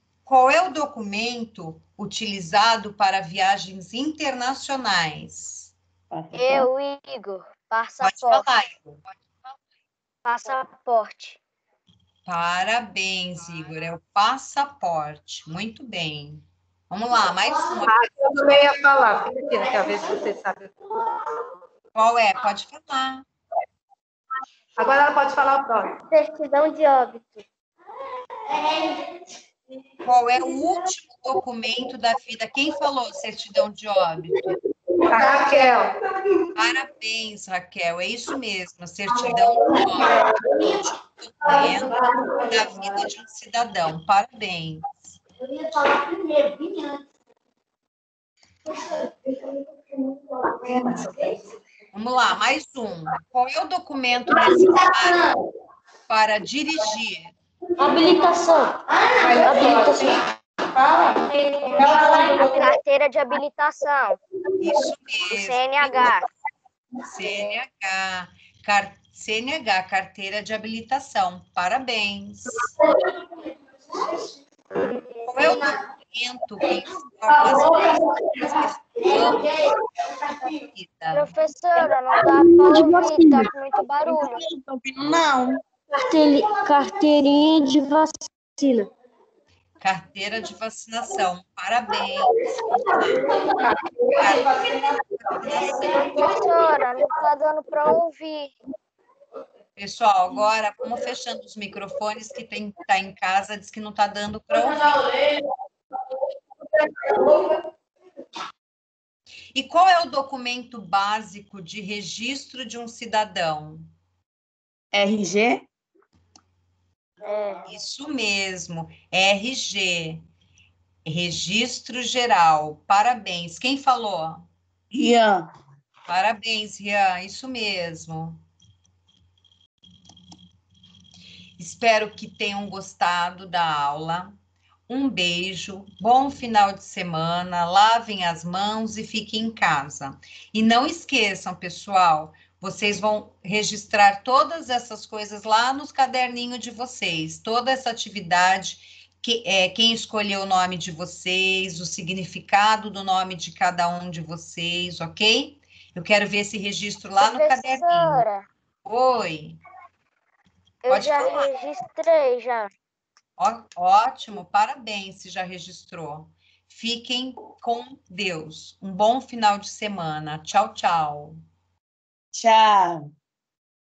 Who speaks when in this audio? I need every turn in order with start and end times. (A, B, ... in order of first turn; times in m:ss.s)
0:00.3-0:05.7 A
0:06.1-0:06.7 B
0:06.3-0:08.5 C
0:08.0-0:09.0 A
0:10.2-0:11.4 C
0:12.3-0:18.7 A
0:17.8-0:20.8 D
0:22.0-0:23.2 A
0:24.8-0:25.9 D
0:26.1-0:27.4 C
0:28.5-0:29.1 E
0:30.0-0:34.4 A
0:35.1-0:36.0 D
0:35.2-0:35.6 E
0:36.6-0:45.2 A
0:39.1-0:40.9 E
0:41.4-0:43.0 E
0:45.4-0:47.0 E
0:50.5-0:51.3 E
0:51.9-0:55.2 A
0:54.3-0:55.4 E
0:56.1-0:57.3 A
0:57.8-0:58.8 C
0:59.0-0:59.5 E
0:59.2-1:02.7 D
0:59.4-1:00.2 C
1:01.8-1:02.4 E
1:02.4-1:04.2 C
1:04.6-1:06.2 A
1:05.3-1:06.3 C
1:07.0-1:12.7 A
1:13.9-1:14.3 E
1:15.3-1:19.5 A
1:17.3-1:20.5 E
1:20.5-1:21.3 A
1:21.1-1:24.4 C
1:22.6-1:25.6 B
1:25.9-1:28.9 C
1:29.8-1:33.3 A
1:33.4-1:36.1 D
1:34.1-1:34.7 A
1:35.2-1:36.3 A
1:35.7-1:36.1 E
1:35.8-1:38.5 C
1:39.8-1:45.0 A
1:44.5-1:45.4 E
1:49.6-1:53.9 A
1:54.9-1:55.7 B
1:57.2-1:57.6 C
1:57.6-2:00.2 A
2:01.0-2:04.5 A
2:04.9-2:05.5 B
2:06.1-2:08.4 A
2:11.6-2:14.4 A
2:14.9-2:38.2 A
2:37.2-2:38.5 C
2:38.8-2:39.6 A
2:40.8-2:42.7 C
2:40.9-2:41.5 A
2:43.4-2:51.4 A
2:52.3-2:53.1 B